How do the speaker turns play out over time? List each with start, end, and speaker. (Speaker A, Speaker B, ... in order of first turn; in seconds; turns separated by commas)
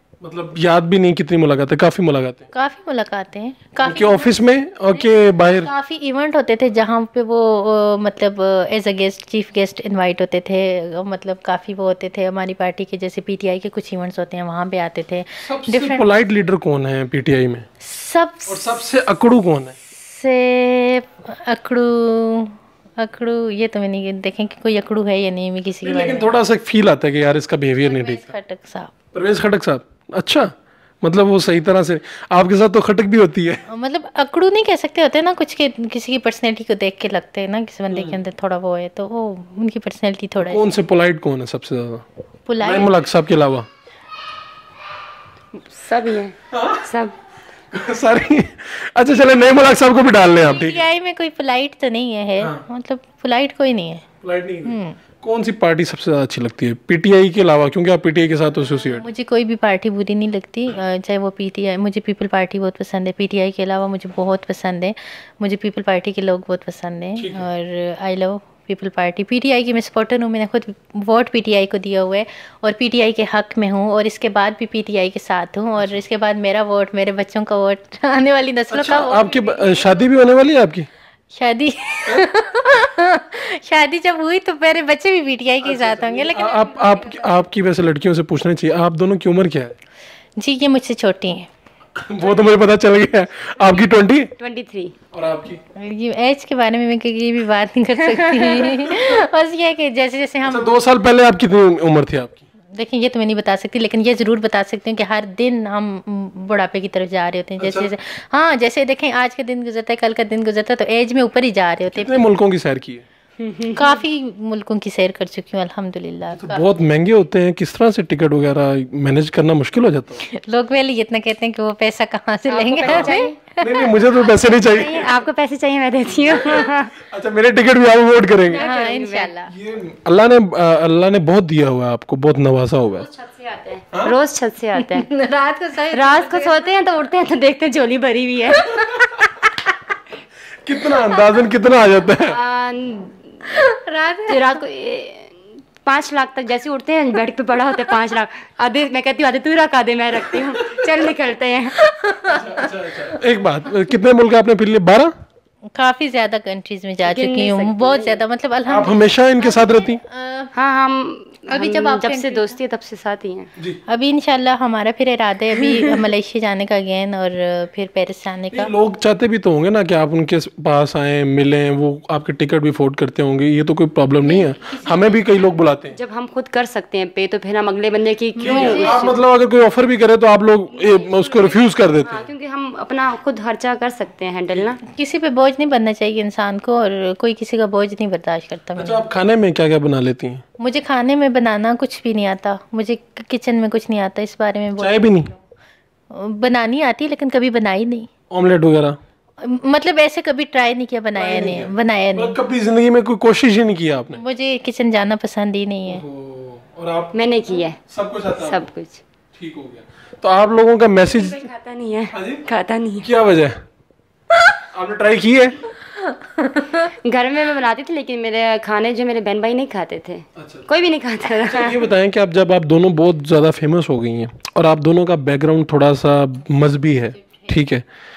Speaker A: 0.2-2.5, Speaker B: 2.5-4.4, Speaker A: 3.8-5.7, Speaker B: 5.6-16.0, Speaker A: 15.4-17.7, Speaker B: 17.8-18.8, Speaker A: 18.5-19.8, Speaker B: 19.9-26.3, Speaker A: 25.8-28.3, Speaker B: 27.9-28.9, Speaker A: 29.1-33.6, Speaker B: 33.7-40.6, Speaker A: 37.9-38.2, Speaker A: 40.4-42.1, Speaker B: 42.5-42.9, Speaker A: 42.6-43.7, Speaker C: 45.5-47.1, Speaker A: 46.5-46.8, Speaker A: 47.7-50.8, Speaker B: 50.4-54.1, Speaker A: 54.2-59.1, Speaker B: 54.6-55.0, Speaker B: 59.0-79.8, Speaker A: 67.2-67.5, Speaker A: 75.8-76.0, Speaker A: 78.7-80.9, Speaker B: 81.3-86.8, Speaker A: 85.6-89.7, Speaker B: 90.4-91.5, Speaker A: 92.0-94.3, Speaker C: 94.4-95.0, Speaker A: 95.1-95.6, Speaker B: 95.8-100.8, Speaker A: 100.4-102.4, Speaker B: 102.7-112.2, Speaker A: 107.6-107.9, Speaker A: 111.9-113.0, Speaker C: 113.4-114.0, Speaker B: 113.8-116.6, Speaker A: 116.3-120.2, Speaker B: 120.2-124.2, Speaker C: 122.5-123.4, Speaker A: 122.8-125.1, Speaker C: 124.7-127.0, Speaker A: 126.5-128.7, Speaker C: 128.5-129.3, Speaker B: 128.5-129.5, Speaker A: 129.5-133.1, Speaker C: 133.0-135.1, Speaker B: 134.8-136.7, Speaker C: 135.9-138.8, Speaker B: 138.7-139.1, Speaker A: 140.6-142.4, Speaker C: 142.2-143.6, Speaker B: 143.5-144.6, Speaker C: 144.3-151.8, Speaker B: 151.8-152.8, Speaker A: 152.3-155.1, Speaker B: 155.7-160.5, Speaker C: 157.0-158.2, Speaker A: 158.7-160.0, Speaker C: 160.5-163.5, Speaker B: 161.5-162.6, Speaker B: 163.9-168.7, Speaker A: 168.5-175.9, Speaker B: 174.2-175.3, Speaker C: 175.9-179.2, Speaker B: 178.4-179.0, Speaker A: 178.4-182.3, Speaker C: 180.7-184.8, Speaker B: 184.9-189.0, Speaker A: 188.8-190.4, Speaker B: 190.6-195.3, Speaker A: 194.8-195.3, Speaker B: 196.1-198.1, Speaker A: 198.3-199.0, Speaker B: 199.4-202.4, Speaker A: 201.2-204.2, Speaker B: 204.2-206.0, Speaker A: 205.9-208.6, Speaker C: 207.1-207.8, Speaker C: 208.4-209.0, Speaker A: 209.3-211.4, Speaker C: 211.1-213.1, Speaker A: 212.1-212.4, Speaker A: 213.0-213.6, Speaker A: 214.7-215.6, Speaker B: 216.3-216.8, Speaker C: 216.8-221.8, Speaker A: 220.4-220.7, Speaker A: 221.5-227.8